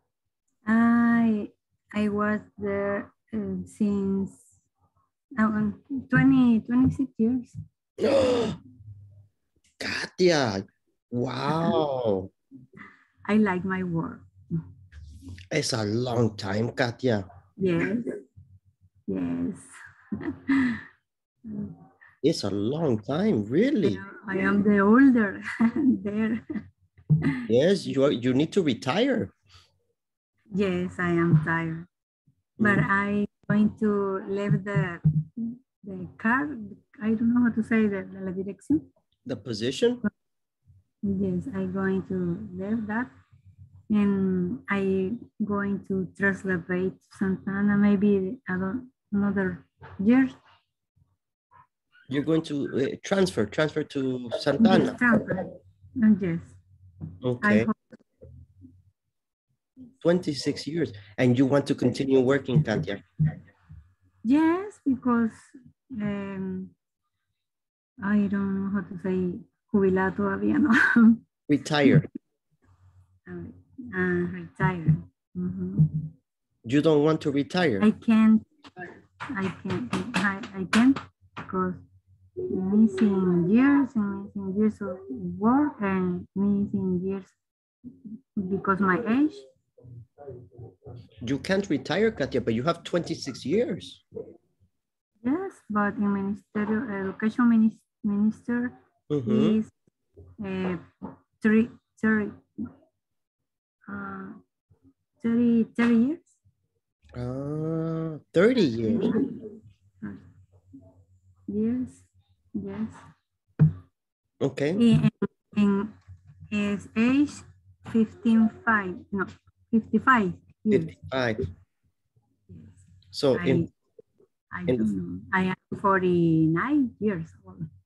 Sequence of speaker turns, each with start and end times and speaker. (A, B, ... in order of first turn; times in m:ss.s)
0:00.6-0:04.4 A
0:05.4-0:07.6 A
0:08.0-0:08.6 B
0:09.8-0:12.3 B
0:13.3-0:14.3 A
0:15.5-0:17.3 B
0:17.6-0:18.2 A
0:19.1-0:19.7 A
0:20.2-0:20.8 A
0:21.5-0:21.8 A
0:22.2-0:24.0 B
0:23.8-0:26.5 A
0:27.5-0:29.3 B
0:30.6-0:31.9 A
0:32.6-0:32.9 B
0:32.6-0:38.9 A
0:39.3-0:40.0 B
0:41.0-0:43.1 A
0:43.9-0:50.4 A
0:52.1-0:55.0 B
0:54.6-0:56.6 A
0:57.2-0:57.7 B
0:57.4-0:57.7 A
1:00.0-1:03.0 B
1:04.2-1:06.7 A
1:08.0-1:11.2 A
1:11.5-1:12.1 B
1:13.3-1:16.1 A
1:16.6-1:17.9 B
1:17.8-1:18.4 A
1:19.3-1:21.8 A
1:22.5-1:27.3 A
1:28.4-1:29.5 A
1:31.2-1:34.0 B
1:35.2-1:39.7 A
1:39.1-1:39.6 B
1:40.4-1:40.8 A
1:41.4-1:42.4 A
1:43.9-1:44.4 A
1:45.2-1:46.3 A
1:47.2-1:49.2 B
1:48.9-1:49.5 A
1:51.5-1:52.0 A
1:52.6-1:53.0 A
1:54.4-1:54.8 B
1:54.8-1:56.0 A
1:56.5-2:01.0 A
2:00.7-2:01.4 B
2:02.5-2:02.8 A
2:03.1-2:03.7 B
2:03.4-2:03.7 A
2:04.5-2:07.7 A